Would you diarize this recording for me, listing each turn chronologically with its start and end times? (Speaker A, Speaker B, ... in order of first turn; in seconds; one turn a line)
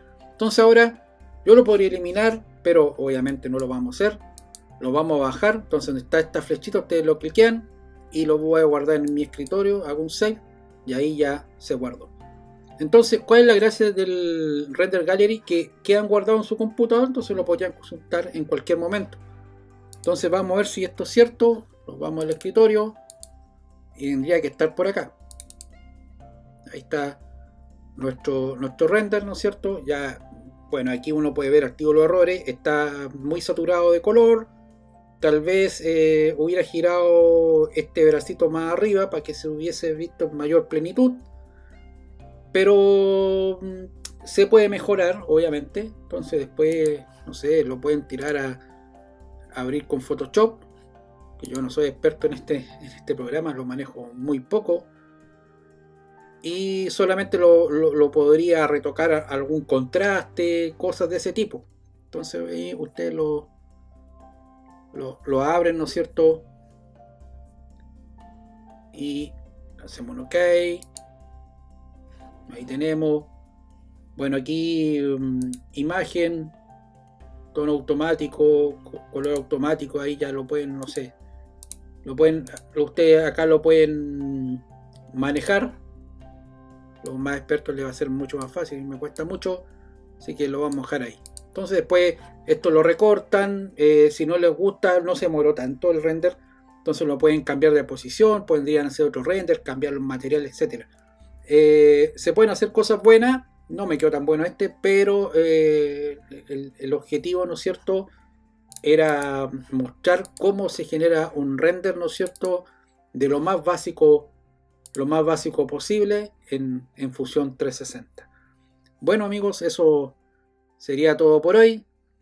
Speaker A: 0.4-4.2
Speaker A: 4.8-12.1
Speaker A: 12.8-19.2
Speaker A: 20.0-23.0
Speaker A: 23.9-25.1
Speaker A: 26.7-27.2
Speaker A: 27.9-34.5
Speaker A: 35.2-41.2
Speaker A: 42.5-48.6
Speaker A: 49.5-50.6
Speaker A: 51.4-54.9
Speaker A: 56.4-63.5
Speaker A: 64.9-66.5
Speaker A: 68.9-70.8
Speaker A: 72.5-73.3
Speaker A: 74.2-76.5
Speaker A: 77.5-81.1
Speaker A: 82.0-85.8
Speaker A: 87.0-89.7
Speaker A: 90.2-100.9
Speaker A: 101.5-108.1
Speaker A: 108.8-114.3
Speaker A: 114.9-118.3
Speaker A: 119.0-120.2
Speaker A: 120.8-121.9